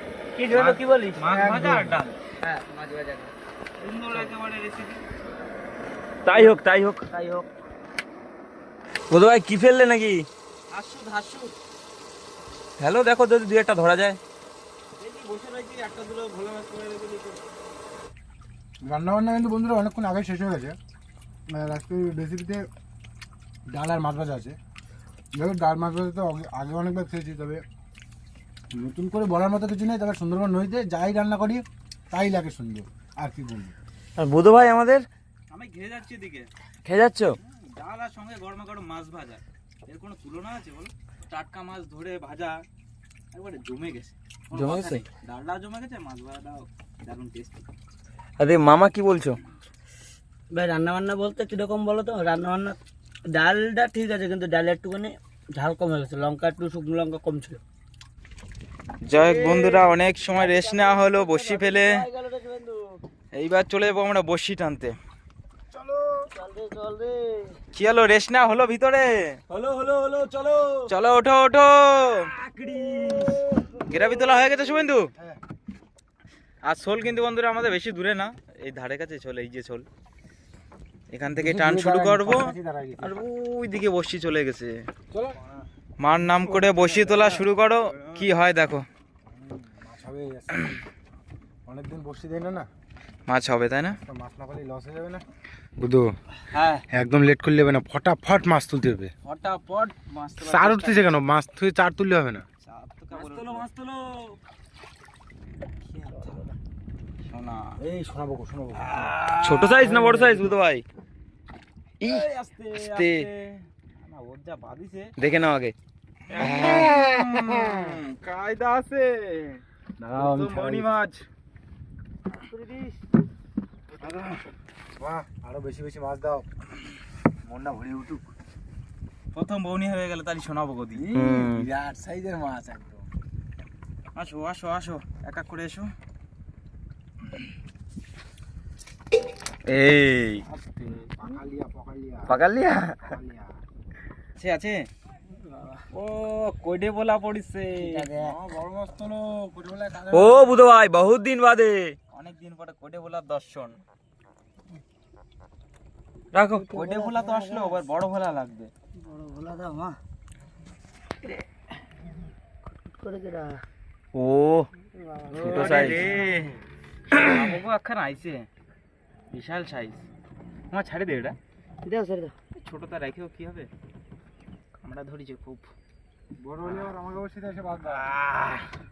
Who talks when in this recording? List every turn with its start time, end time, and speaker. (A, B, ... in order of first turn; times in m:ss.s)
0:00.4-0:01.2 A
0:00.5-0:02.2 B
0:01.3-0:02.0 C
0:02.4-0:03.3 A
0:03.8-0:05.0 B
0:06.2-0:07.0 D
0:06.3-0:06.6 A
0:07.1-0:07.5 A
0:09.1-0:10.3 D
0:10.7-0:11.5 B
0:12.8-0:14.2 D
0:15.0-0:17.4 B
0:18.8-0:20.8 C
0:21.5-0:22.6 C
0:23.7-0:24.6 C
0:25.3-0:27.6 C
0:28.7-0:33.7 C
0:34.2-0:35.1 D
0:35.5-0:36.5 B
0:36.8-0:37.4 D
0:37.4-0:42.6 B
0:43.3-0:47.7 B
0:44.5-0:45.0 D
0:48.4-0:49.4 D
0:50.5-0:57.6 A
0:59.0-1:02.0 B
0:59.1-1:03.0 A
1:03.3-1:05.0 B
1:06.3-1:07.6 A
1:07.7-1:09.4 B
1:09.5-1:10.9 D
1:10.9-1:12.3 B
1:12.2-1:13.4 D
1:13.8-1:15.1 B
1:16.6-1:19.8 B
1:21.1-1:24.9 B
1:21.3-1:23.2 C
1:25.1-1:25.4 C
1:26.0-1:28.8 B
1:26.1-1:27.4 C
1:29.3-1:30.8 C
1:31.6-1:32.7 C
1:33.3-1:34.0 B
1:33.9-1:35.2 C
1:35.8-1:36.1 C
1:36.5-1:36.8 B
1:36.9-1:39.1 C
1:39.2-1:41.1 B
1:40.4-1:42.4 C
1:42.6-1:43.6 B
1:43.1-1:44.4 D
1:46.0-1:46.6 A
1:47.3-1:47.8 B
1:47.8-1:49.1 C
1:49.0-1:49.9 B
1:49.0-1:50.8 D
1:49.8-1:50.5 C
1:52.0-1:53.3 D
1:52.0-1:55.1 B
1:55.2-1:55.7 D
1:56.3-1:59.6 B
1:56.4-1:57.0 D
1:56.4-1:57.9 C
2:00.0-2:00.9 C
2:00.1-2:01.2 B
2:02.3-2:03.1 A
2:04.0-2:04.4 B
2:05.0-2:06.5 C
2:07.5-2:08.3 C
2:09.3-2:11.0 B
2:10.9-2:13.1 C
2:11.1-2:11.7 D
2:14.1-2:15.9 B
2:19.7-2:20.4 D
2:20.4-2:22.4 C
2:22.3-2:23.2 D
2:23.0-2:23.6 C
2:24.4-2:24.9 B
2:25.3-2:25.8 A
2:25.9-2:28.1 B
2:27.8-2:28.4 A
2:28.2-2:30.6 C
2:30.1-2:31.9 D
2:32.1-2:33.8 B
2:36.3-2:36.6 D
2:36.5-2:37.8 A
2:36.7-2:38.7 B
2:39.0-2:40.0 A
2:42.7-2:43.6 A
2:44.1-2:44.7 D
2:44.8-2:46.0 A
2:45.3-2:46.5 B
2:45.4-2:46.0 D
2:47.1-2:48.5 B
2:49.3-2:50.0 B
2:50.7-2:51.4 B
2:51.8-2:52.3 A
2:52.5-2:53.7 B
2:54.8-2:55.7 B
2:56.4-2:58.0 C
2:57.9-2:58.7 B